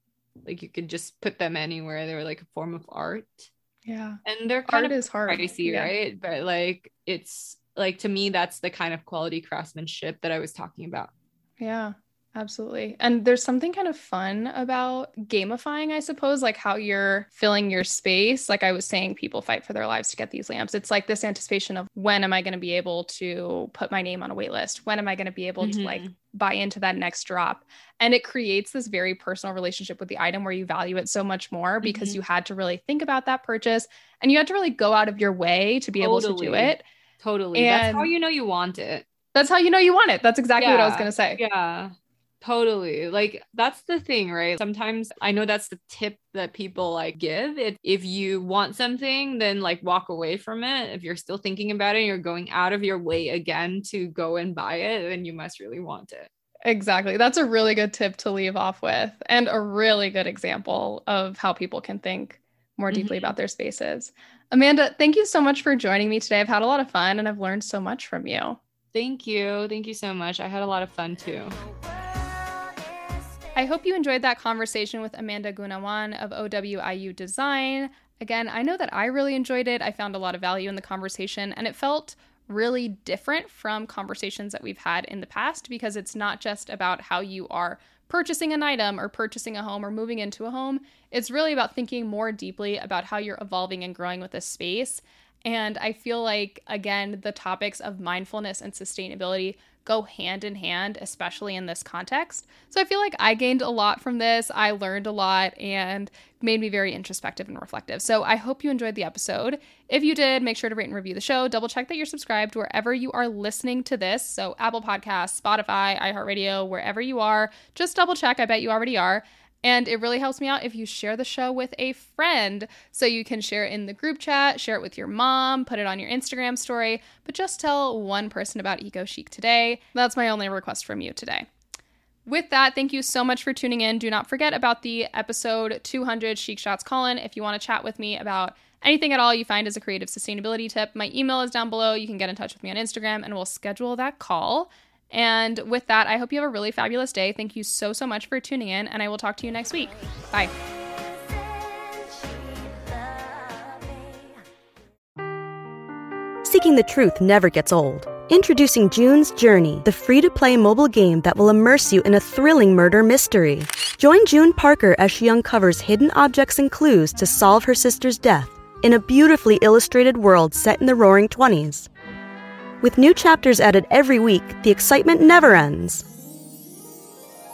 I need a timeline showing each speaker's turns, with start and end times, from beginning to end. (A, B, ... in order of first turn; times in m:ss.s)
0:00.4-0:03.5 A
0:03.9-0:05.9 B
0:04.2-0:11.1 A
0:11.6-0:36.8 B
0:25.6-0:26.1 A
0:31.8-0:32.2 A
0:36.0-0:39.1 A
0:37.6-0:38.1 B
0:39.3-0:41.4 B
0:40.6-0:56.3 A
0:56.7-1:08.6 B
1:02.9-1:03.3 A
1:08.9-1:11.6 A
1:13.6-2:11.5 B
2:12.3-2:30.5 B
2:36.4-2:51.9 C
2:52.8-2:56.1 C